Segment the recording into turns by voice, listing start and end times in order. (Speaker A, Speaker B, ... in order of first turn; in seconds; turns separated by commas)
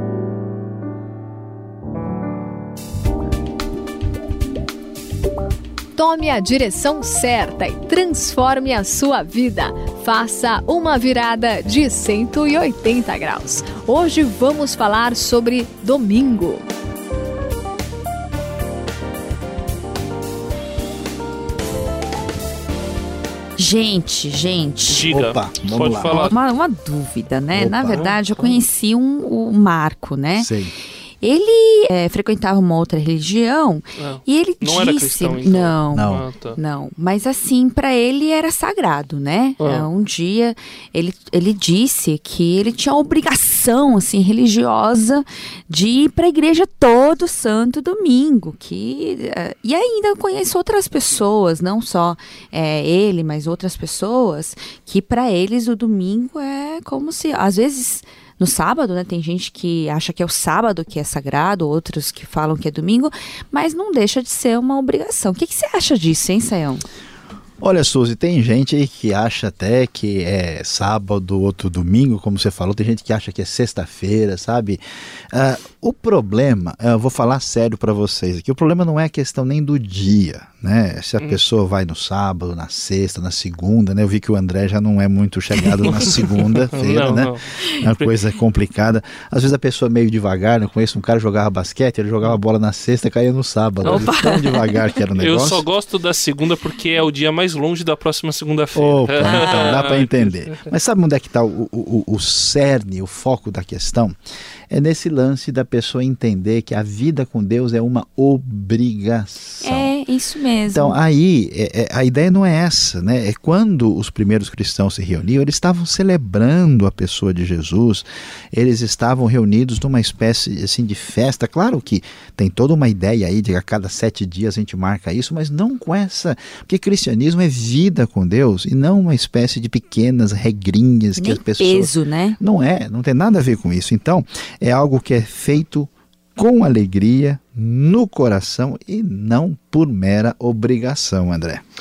Speaker A: 6.0-16.6, Speaker B: 23.6-25.1, Speaker C: 24.9-26.4, Speaker D: 25.1-26.3, Speaker B: 26.0-30.5, Speaker D: 27.5-28.1, Speaker C: 27.9-28.6, Speaker D: 30.4-30.7, Speaker B: 31.2-66.8, Speaker C: 34.0-36.6, Speaker D: 35.9-36.2, Speaker C: 39.6-39.9, Speaker D: 67.6-95.6, Speaker C: 85.9-88.1, Speaker B: 93.8-94.8, Speaker C: 93.8-94.1, Speaker C: 95.2-100.7, Speaker D: 98.7-104.2, Speaker B: 99.2-99.8, Speaker D: 104.7-109.9, Speaker B: 109.6-111.0, Speaker D: 110.7-141.6, Speaker B: 131.2-132.4